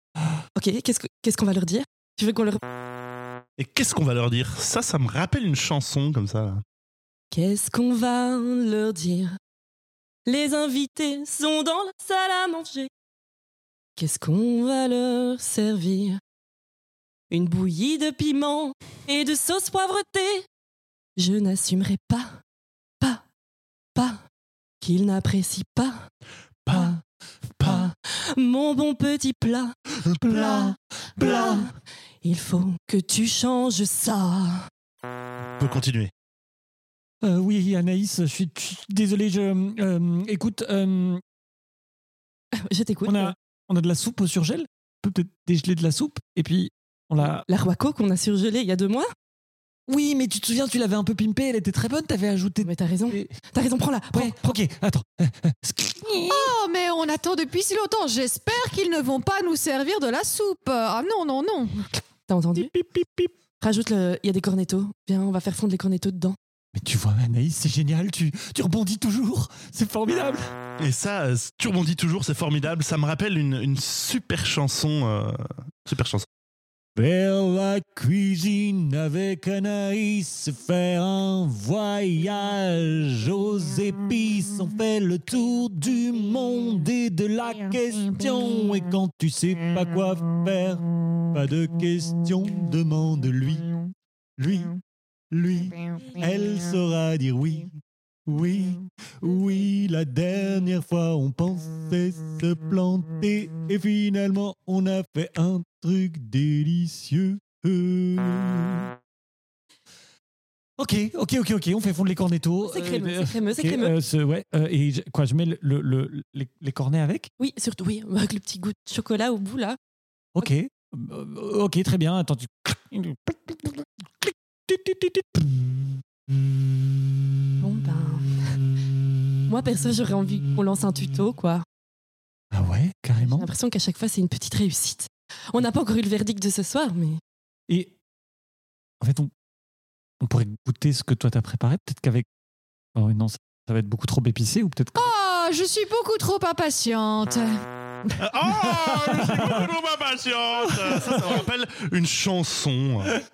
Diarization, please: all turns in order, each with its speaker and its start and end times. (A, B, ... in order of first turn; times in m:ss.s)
0:00.6-0:02.6 A
0:03.6-0:06.6 B
0:07.3-0:09.4 A
0:10.3-0:12.9 A
0:14.0-0:16.2 A
0:17.3-0:20.5 A
0:21.2-0:22.4 A
0:24.0-0:24.2 A
0:24.8-0:26.1 A
0:26.7-0:26.9 B
0:26.7-0:27.0 A
0:27.6-0:29.8 A
0:30.2-0:31.7 C
0:30.4-0:30.6 A
0:31.2-0:31.7 A
0:32.2-0:34.7 A
0:35.6-0:36.1 B
0:37.2-0:41.2 C
0:42.5-0:43.4 A
0:43.1-0:47.5 C
0:47.4-0:49.1 A
0:49.9-0:53.3 C
0:52.6-0:54.4 A
0:54.1-0:56.5 C
0:56.3-1:01.9 D
1:02.3-1:02.7 A
1:02.6-1:03.3 C
1:03.6-1:06.4 A
1:06.7-1:10.5 C
1:10.8-1:16.3 B
1:17.0-1:33.7 C
1:34.4-1:34.8 C
1:35.3-1:37.7 C
1:38.3-1:48.9 C
1:50.8-1:57.3 C
1:52.7-1:53.9 A
1:57.4-1:59.8 A
2:00.4-2:07.2 C
2:07.6-2:08.6 A
2:09.5-2:11.6 A
2:12.5-2:13.5 C
2:13.2-2:17.2 A
2:17.7-2:17.9 C
2:19.0-2:19.3 C
2:20.2-2:22.3 C
2:23.0-2:25.1 C
2:25.0-2:28.2 D
2:28.2-2:33.2 B
2:28.7-2:29.7 C
2:30.7-2:31.4 C